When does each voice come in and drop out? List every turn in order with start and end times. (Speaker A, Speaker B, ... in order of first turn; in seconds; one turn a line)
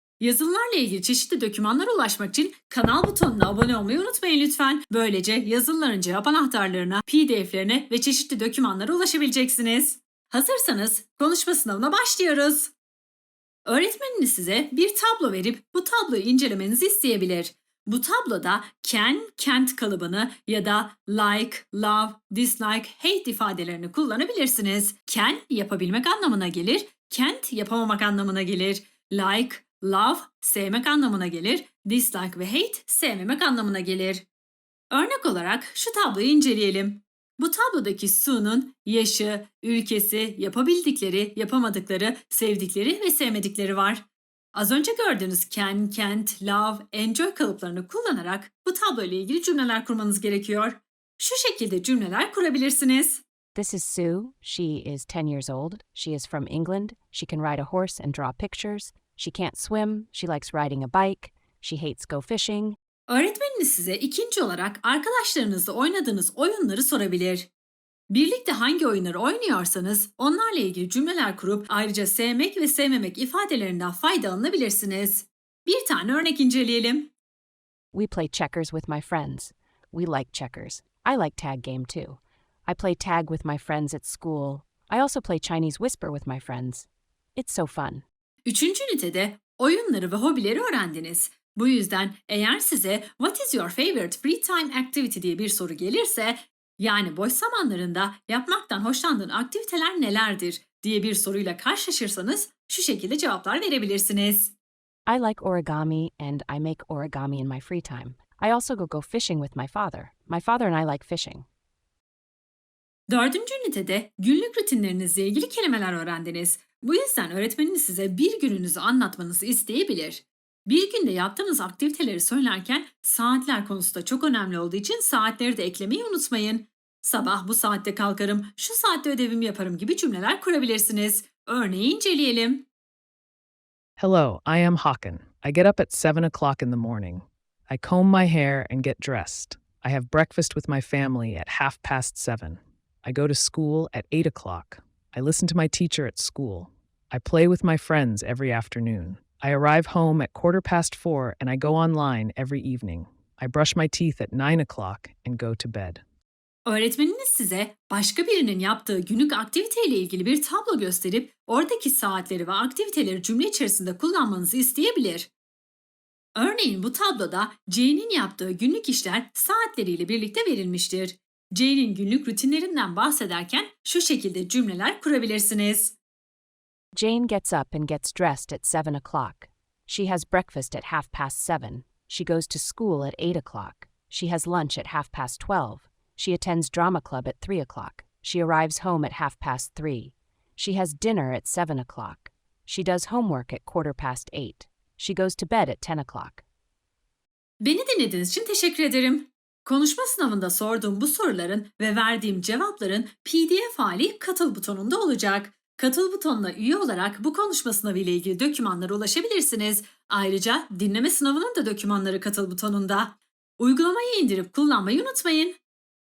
Speaker A: 0.2-12.7
Speaker A: 13.7-34.2
Speaker A: 34.9-53.2
Speaker B: 53.5-62.8
Speaker A: 63.1-67.5
Speaker A: 68.1-77.1
Speaker B: 77.9-88.0
Speaker A: 88.4-104.5
Speaker B: 105.0-111.5
Speaker A: 113.1-132.6
Speaker C: 134.0-156.0
Speaker A: 156.7-165.3
Speaker A: 166.3-175.9
Speaker B: 176.9-196.4
Speaker A: 197.6-215.6